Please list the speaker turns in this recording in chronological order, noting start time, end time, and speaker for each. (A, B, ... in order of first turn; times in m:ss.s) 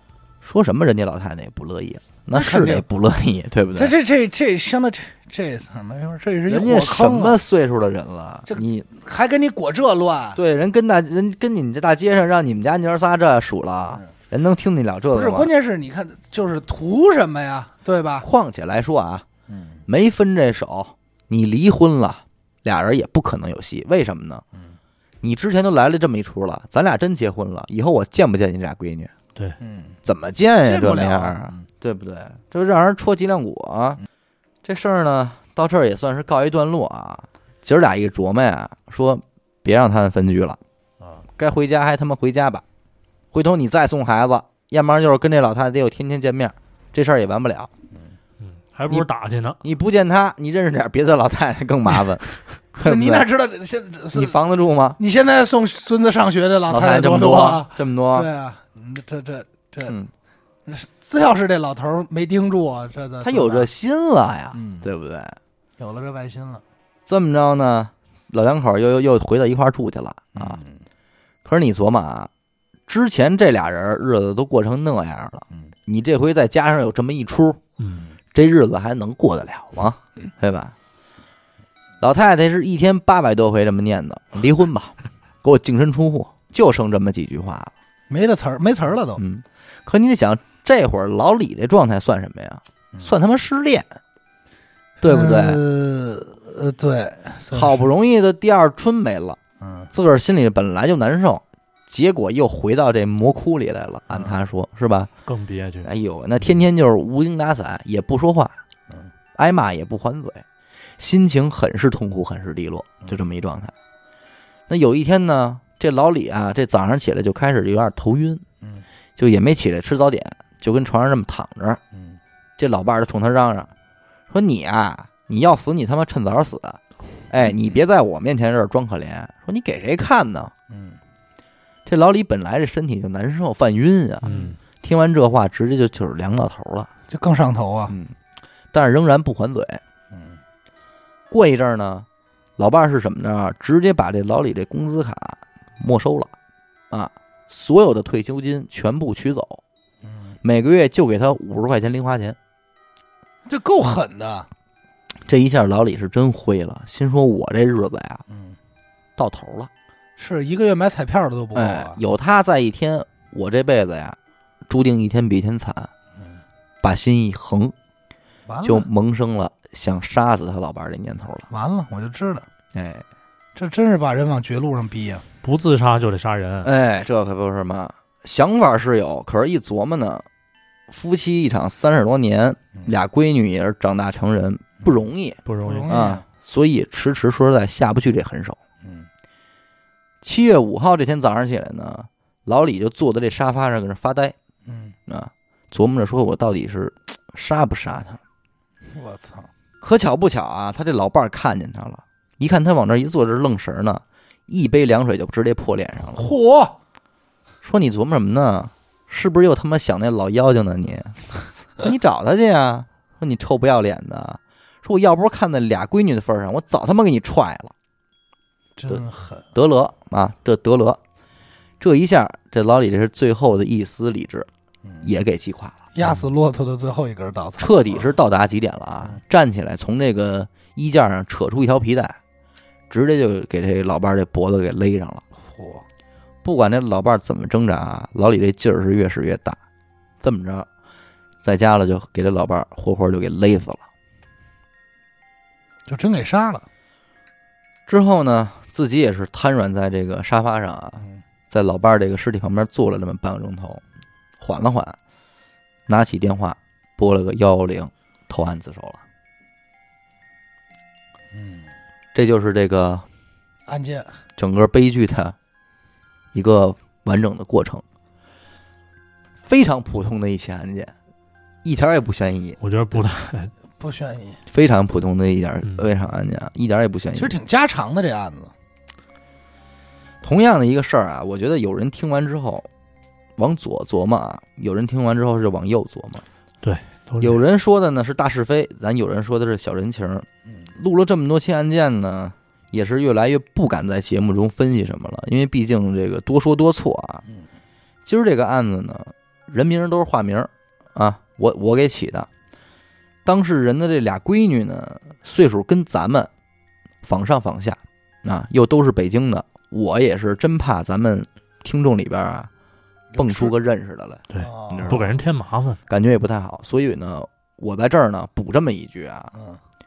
0:00.4-0:04.0 A
0:02.3-0:02.9 B
0:03.8-0:07.4 B
0:06.5-0:08.9 A
0:08.5-0:10.4 B
0:10.4-0:15.5 A
0:15.1-0:18.3 B
0:18.2-0:19.2 A
0:19.5-0:19.8 B
0:19.9-0:24.4 A
0:25.2-0:29.1 A
0:29.6-0:30.0 B
0:30.0-0:34.0 A
0:30.6-0:31.6 B
0:34.6-0:40.6 A
0:41.4-0:42.6 A
0:43.3-0:47.7 A
0:48.4-0:49.6 C
0:49.6-0:53.3 A
0:52.8-0:54.4 B
0:54.1-0:55.0 A
0:55.0-1:00.0 B
0:56.7-0:58.3 A
0:59.9-1:00.1 A
1:00.7-1:03.7 B
1:03.2-1:05.4 A
1:04.5-1:04.9 B
1:05.8-1:06.6 B
1:07.1-1:10.6 A
1:10.4-1:10.8 B
1:11.4-1:12.3 A
1:12.9-1:17.6 A
1:18.3-1:20.7 A
1:22.0-1:27.7 A
1:28.1-1:29.2 B
1:29.2-1:33.9 A
1:35.0-1:35.6 A
1:35.0-1:37.9 B
1:37.5-1:39.4 A
1:39.6-1:39.9 B
1:39.9-1:45.1 A
1:44.1-1:44.3 B
1:45.3-1:45.9 C
1:45.8-1:48.6 A
1:49.4-1:50.4 A
1:51.0-1:53.7 A
1:54.7-1:58.4 A
1:59.2-2:01.8 A
2:01.9-2:02.2 B
2:02.6-2:03.7 A
2:04.3-2:10.5 A
2:10.7-2:11.0 B
2:11.9-2:16.9 A
2:14.2-2:14.6 C
2:14.3-2:14.6 B
2:17.1-2:18.0 B
2:17.9-2:18.2 A
2:18.7-2:19.8 A
2:20.1-2:20.4 B
2:21.3-2:22.1 A
2:22.6-2:26.3 A
2:26.9-2:29.6 A
2:30.0-2:30.4 B
2:30.4-2:32.4 A
2:33.5-2:34.5 B
2:35.3-2:38.2 A
2:38.3-2:38.6 B
2:39.2-2:39.7 A
2:40.2-2:42.0 B
2:41.6-2:44.2 A
2:44.7-2:45.9 A
2:46.8-2:47.7 A
2:48.5-2:48.9 B
2:48.6-2:51.5 A
2:51.5-2:52.5 B
2:52.7-2:53.0 A
2:53.6-2:55.2 B
2:55.4-2:56.7 C
2:56.6-3:00.3 A
3:00.9-3:08.6 A
3:05.5-3:06.0 C
3:05.6-3:06.2 B
3:08.8-3:09.1 B
3:10.2-3:14.4 A
3:14.7-3:15.0 B
3:15.1-3:18.2 A
3:18.9-3:19.5 B
3:19.8-3:26.3 A
3:26.0-3:26.8 B
3:27.6-3:31.3 A
3:31.8-3:37.7 A
3:38.8-3:39.5 B
3:38.9-3:41.0 A
3:41.8-3:44.5 A
3:45.0-3:45.8 A
3:45.9-3:48.1 B
3:47.6-3:52.2 A
3:52.9-3:55.2 A
3:55.4-3:55.8 B
3:56.4-3:59.6 A
4:00.2-4:00.7 A
4:01.4-4:03.8 A
4:05.9-4:06.6 B
4:07.9-4:13.8 A
4:14.4-4:15.0 A
4:15.9-4:19.0 A
4:21.3-4:21.7 B
4:22.1-4:23.0 A
4:23.7-4:24.2 B
4:24.4-4:25.4 A
4:26.3-4:27.8 A
4:29.4-4:30.9 A
4:31.6-4:32.6 A
4:32.6-4:33.5 C
4:33.8-4:34.4 B
4:34.5-4:37.4 A
4:37.2-4:38.5 B
4:40.2-4:42.7 A
4:43.4-4:46.2 A
4:46.6-4:47.4 C
4:47.2-4:57.2 A
4:58.0-5:02.3 A
5:03.2-5:06.3 A
5:07.0-5:12.5 A
5:13.1-5:13.5 B
5:13.2-5:15.1 A
5:14.3-5:15.8 C
5:14.4-5:15.0 B
5:15.9-5:19.3 A